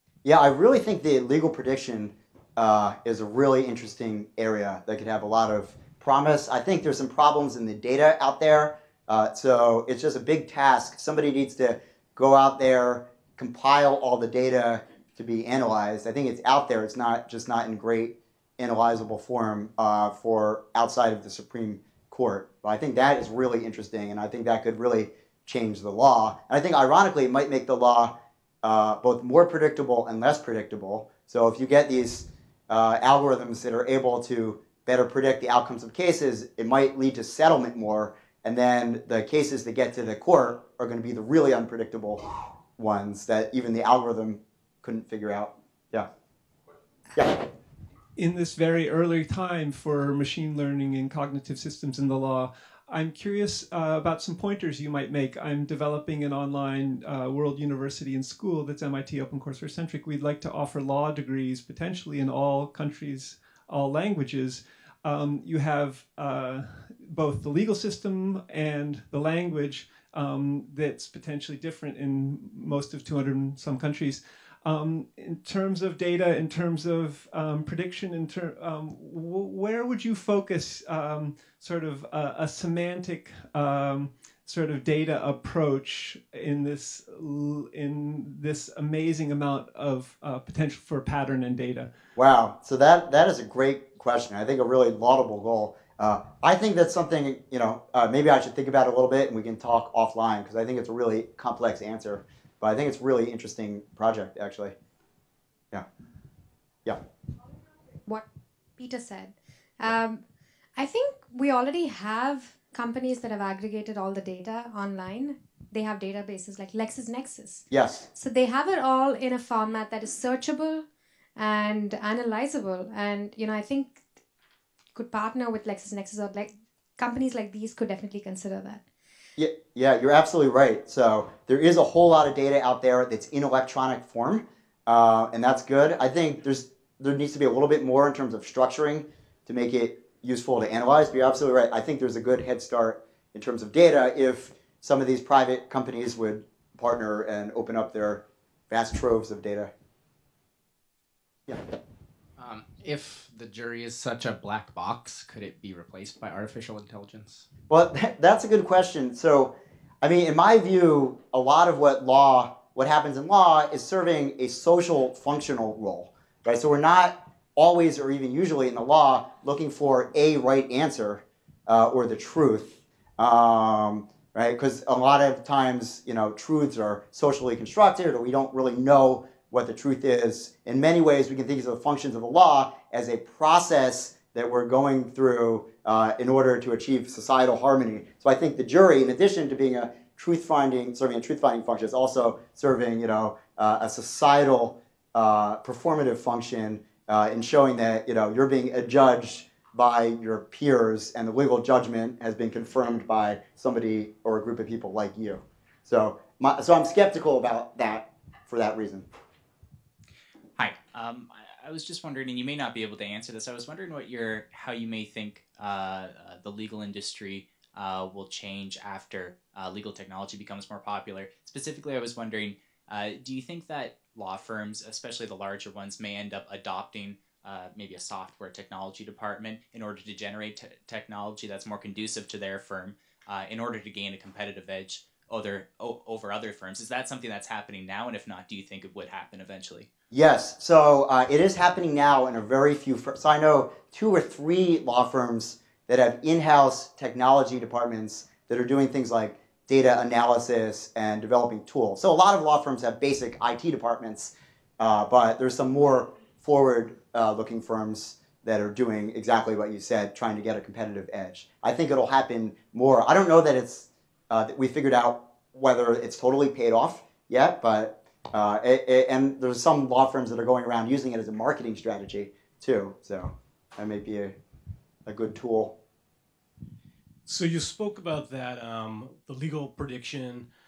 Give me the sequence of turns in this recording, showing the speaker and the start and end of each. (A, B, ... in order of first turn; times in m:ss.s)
0:00.2-0:42.2 A
0:42.8-0:46.1 A
0:47.1-0:47.4 A
0:48.2-1:31.9 B
1:32.2-1:44.7 A
1:48.8-1:50.2 C
1:50.7-2:04.1 C
1:57.7-1:58.1 A
2:04.9-2:08.8 C
2:09.4-2:29.7 A
2:32.4-2:37.5 D
2:37.7-3:29.1 A
3:30.6-3:59.9 E
4:00.1-4:34.3 A
4:35.1-4:35.8 A
4:37.2-4:40.5 F